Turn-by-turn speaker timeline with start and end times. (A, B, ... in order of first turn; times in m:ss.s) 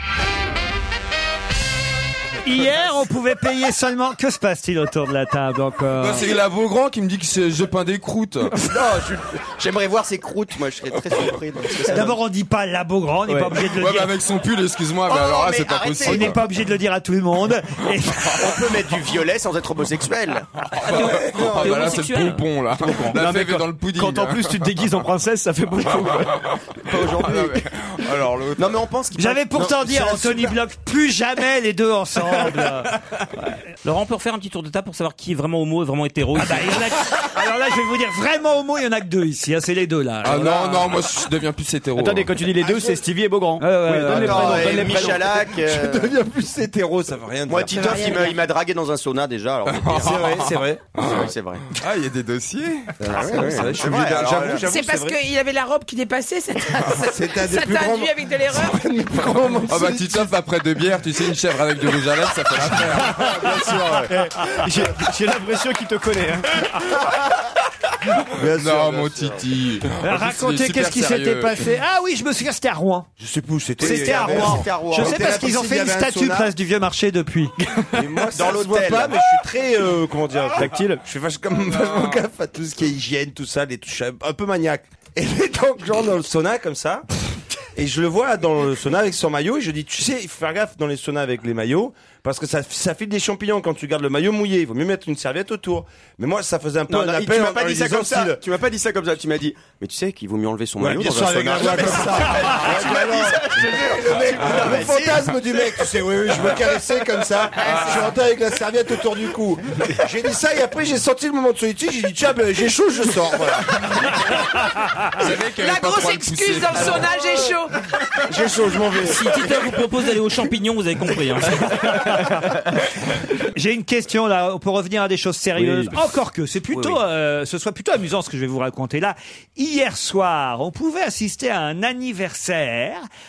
0:02.4-0:06.3 A
0:06.0-0:08.6 B
0:08.6-0:12.2 C
0:11.9-0:14.1 A
0:13.3-0:13.6 D
0:13.6-0:16.4 B
0:15.1-0:16.4 C
0:16.0-0:18.4 A
0:18.4-0:20.5 C
0:20.8-0:24.8 B
0:20.9-0:23.1 E
0:22.9-0:26.4 D
0:25.9-0:28.8 B
0:26.9-0:27.6 C
0:28.6-0:30.6 C
0:29.2-0:33.6 A
0:33.8-0:36.9 E
0:36.4-0:40.5 A
0:40.2-0:42.3 B
0:40.4-0:40.7 D
0:41.9-0:45.3 D
0:43.6-0:45.2 A
0:44.0-0:46.2 C
0:45.0-0:48.2 F
0:47.5-0:50.5 C
0:47.7-0:48.4 G
0:49.7-0:54.6 B
0:50.0-0:50.8 F
0:51.0-0:51.7 C
0:53.0-0:55.2 F
0:53.0-0:54.9 C
0:54.6-0:58.9 G
0:57.0-1:00.4 F
0:59.2-1:03.6 B
1:02.8-1:04.7 F
1:03.1-1:03.7 A
1:04.1-1:06.7 D
1:08.3-1:09.4 F
1:08.5-1:11.7 B
1:10.0-1:13.1 A
1:13.2-1:16.5 F
1:13.8-1:17.8 A
1:13.8-1:15.4 C
1:17.9-1:27.1 F
1:18.3-1:19.2 C
1:21.7-1:22.2 B
1:27.8-1:38.4 F
1:36.9-1:45.9 C
1:40.8-1:54.2 F
1:47.6-1:48.2 B
1:54.8-1:55.1 A
1:55.1-1:57.2 B
1:55.3-1:57.8 G
1:58.3-1:59.8 F
1:59.0-2:02.0 E
2:01.7-2:02.8 A
2:03.4-2:13.0 A
2:05.6-2:06.0 D